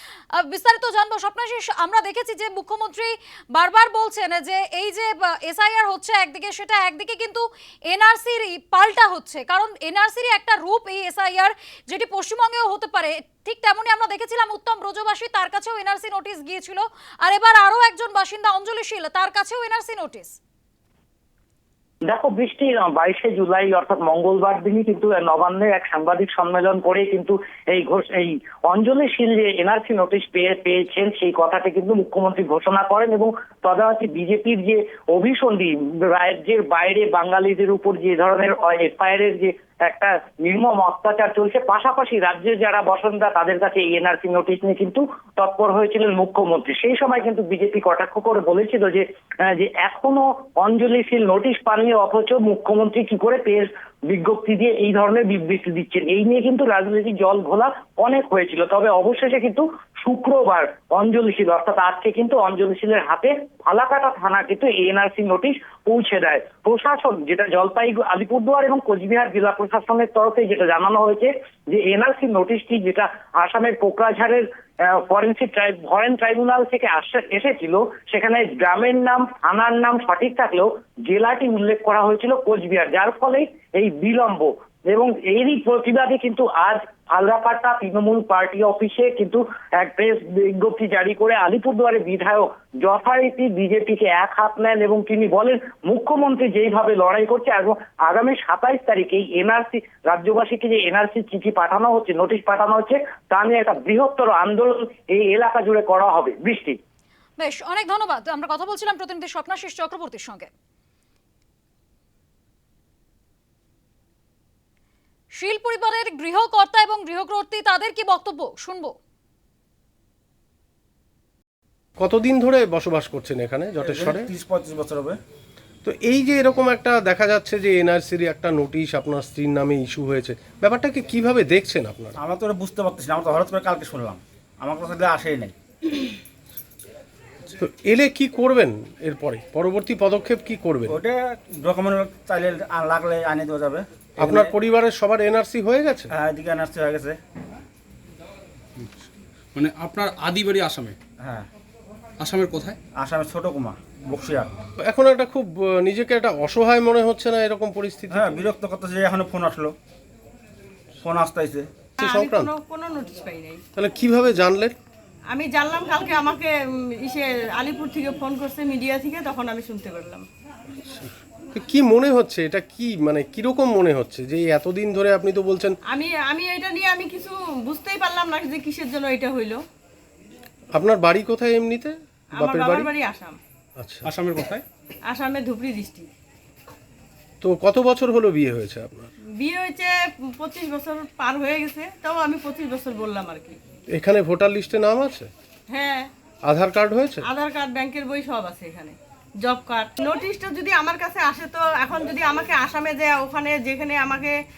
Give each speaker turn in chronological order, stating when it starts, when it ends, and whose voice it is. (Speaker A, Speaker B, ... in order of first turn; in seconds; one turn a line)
Speaker A: 0.4-20.4
Speaker B: 22.1-106.8
Speaker A: 107.4-110.5
Speaker A: 115.4-119.0
Speaker C: 122.0-124.3
Speaker D: 123.8-125.2
Speaker C: 125.8-132.2
Speaker D: 132.2-135.5
Speaker C: 137.6-140.9
Speaker D: 140.9-144.6
Speaker C: 144.2-146.1
Speaker D: 146.1-147.2
Speaker E: 149.6-150.9
Speaker D: 151.2-151.5
Speaker E: 152.2-152.8
Speaker D: 153.0-154.5
Speaker C: 154.9-158.4
Speaker D: 158.1-159.8
Speaker D: 161.0-161.7
Speaker F: 162.0-163.6
Speaker C: 162.0-162.5
Speaker C: 163.8-164.8
Speaker F: 165.3-170.3
Speaker C: 170.9-175.8
Speaker F: 175.9-179.6
Speaker C: 180.7-182.9
Speaker F: 182.3-183.4
Speaker C: 183.8-184.1
Speaker E: 184.1-184.6
Speaker F: 185.1-186.1
Speaker C: 187.4-189.1
Speaker F: 189.4-193.6
Speaker C: 193.9-195.3
Speaker F: 195.7-196.1
Speaker C: 196.5-197.2
Speaker F: 197.2-204.4